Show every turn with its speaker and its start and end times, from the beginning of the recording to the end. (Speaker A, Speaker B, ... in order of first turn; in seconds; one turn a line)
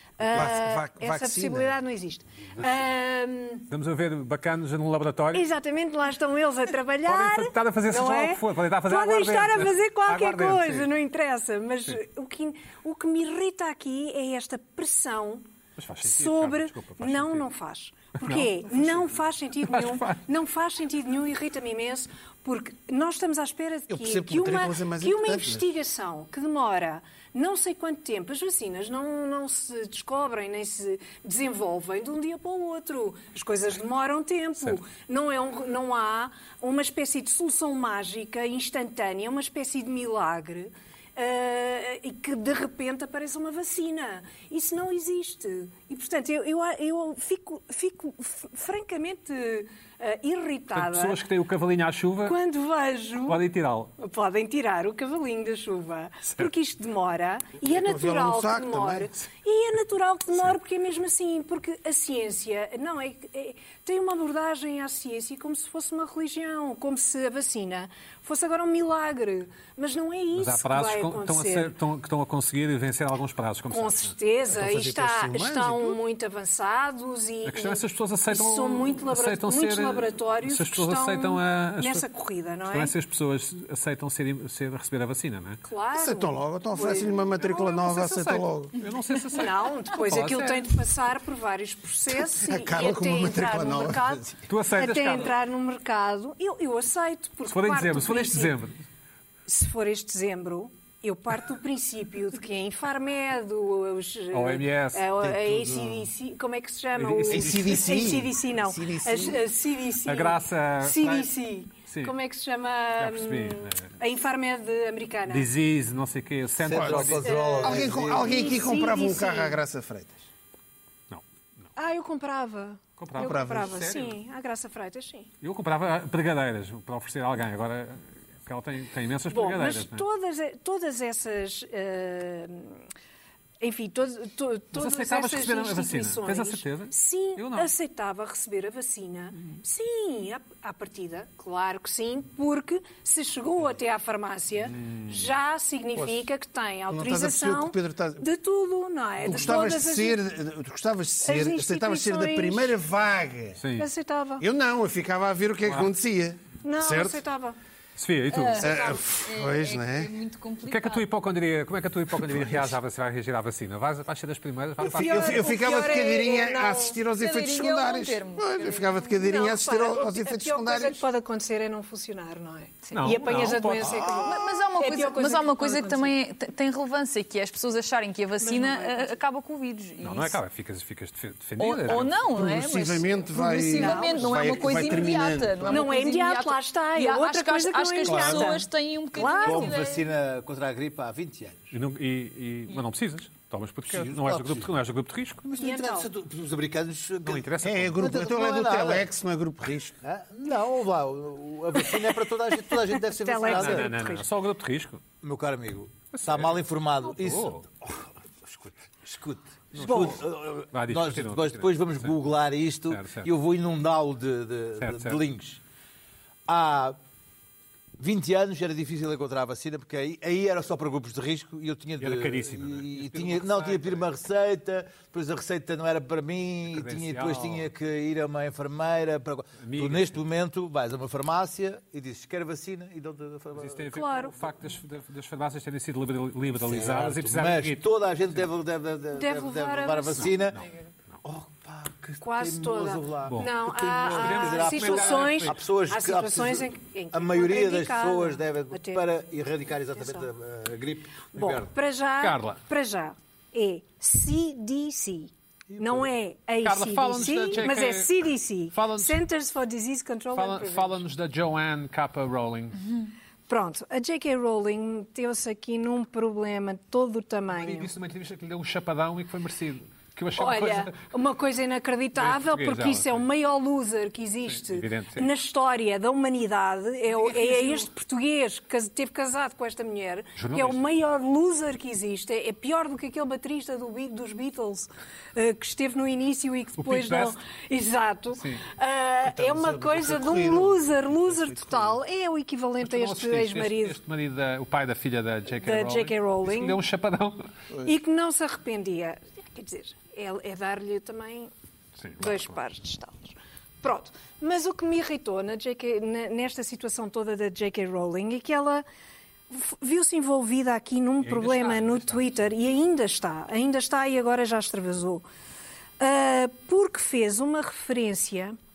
Speaker A: 0.2-3.7
Speaker B: 0.2-1.8
Speaker C: 3.7-5.5
Speaker A: 5.3-15.4
Speaker C: 7.0-10.9
Speaker C: 15.8-17.5
Speaker A: 16.0-51.2
Speaker C: 18.2-18.9
Speaker C: 19.7-20.2
Speaker B: 23.9-25.7
Speaker C: 50.7-52.4
Speaker A: 52.2-53.4
Speaker C: 53.3-53.9
Speaker A: 54.0-71.7
Speaker B: 57.6-59.1
Speaker C: 70.3-74.2
Speaker A: 73.7-82.9
Speaker B: 74.5-76.0
Speaker C: 77.5-82.0
Speaker C: 82.7-85.6
Speaker A: 85.6-88.4
Speaker B: 85.9-88.8
Speaker C: 88.8-90.7
Speaker A: 89.3-98.6
Speaker B: 92.2-94.3
Speaker C: 94.5-95.4
Speaker C: 97.5-98.8
Speaker A: 99.5-115.5
Speaker C: 104.3-105.1
Speaker D: 105.2-106.0
Speaker C: 107.0-107.9
Speaker B: 107.2-109.5
Speaker C: 110.0-111.3
Speaker C: 111.8-112.2
Speaker C: 113.0-114.0
Speaker C: 115.3-117.4
Speaker D: 116.6-118.5
Speaker B: 116.7-120.2
Speaker A: 117.2-119.6
Speaker A: 121.8-125.3
Speaker C: 123.0-124.2
Speaker B: 123.2-123.9
Speaker C: 125.4-130.1
Speaker A: 129.3-132.8
Speaker A: 133.6-150.2
Speaker C: 134.7-137.7
Speaker C: 144.8-145.3
Speaker B: 146.9-148.3
Speaker B: 149.2-153.6
Speaker A: 151.2-152.8
Speaker C: 153.6-153.9
Speaker A: 153.8-154.5
Speaker B: 154.4-157.2
Speaker A: 156.6-157.6
Speaker C: 158.0-158.7
Speaker E: 158.3-161.1
Speaker B: 158.6-160.1
Speaker C: 160.7-165.5
Speaker B: 164.8-171.0
Speaker A: 164.8-167.0
Speaker E: 167.1-169.1
Speaker A: 169.1-176.2
Speaker C: 172.9-174.1
Speaker E: 174.1-180.4
Speaker A: 178.4-179.1
Speaker C: 180.0-182.2
Speaker E: 181.6-190.1
Speaker B: 182.3-185.9
Speaker A: 183.7-184.8
Speaker A: 185.7-189.8
Speaker B: 188.1-188.5
Speaker D: 189.4-191.7
Speaker C: 191.7-195.4
Speaker D: 193.9-194.7
Speaker D: 195.4-199.1
Speaker A: 195.6-196.1
Speaker C: 197.2-198.0
Speaker B: 197.6-200.0
Speaker D: 200.0-204.0
Speaker A: 202.7-204.3
Speaker C: 203.4-205.0
Speaker D: 205.2-215.6
Speaker C: 206.1-207.7
Speaker C: 209.7-212.2
Speaker A: 209.8-210.2
Speaker C: 212.9-213.3
Speaker C: 214.8-215.2
Speaker D: 216.5-217.0
Speaker D: 218.0-233.9
Speaker C: 222.0-224.1
Speaker C: 226.7-227.7
Speaker C: 229.6-230.2
Speaker C: 233.6-237.9
Speaker A: 233.9-234.4
Speaker D: 236.6-240.6
Speaker A: 239.2-240.4
Speaker C: 240.2-240.7
Speaker D: 241.2-251.7
Speaker A: 242.2-249.0
Speaker C: 243.3-245.6
Speaker A: 250.0-250.3
Speaker A: 251.3-261.0
Speaker C: 252.2-252.6
Speaker D: 255.7-256.1
Speaker C: 256.6-259.2
Speaker C: 260.3-262.9
Speaker A: 263.5-267.9
Speaker C: 267.5-271.0
Speaker A: 270.4-294.0
Speaker C: 272.1-273.3
Speaker C: 274.5-275.3
Speaker C: 277.1-277.9
Speaker C: 280.4-280.8
Speaker C: 286.8-287.4
Speaker C: 288.4-288.6
Speaker B: 289.2-292.0
Speaker C: 292.8-297.5
Speaker A: 295.6-296.8
Speaker A: 297.8-301.5
Speaker C: 302.0-302.6
Speaker A: 302.2-308.8
Speaker A: 309.5-315.2
Speaker C: 311.2-312.5
Speaker A: 316.0-318.6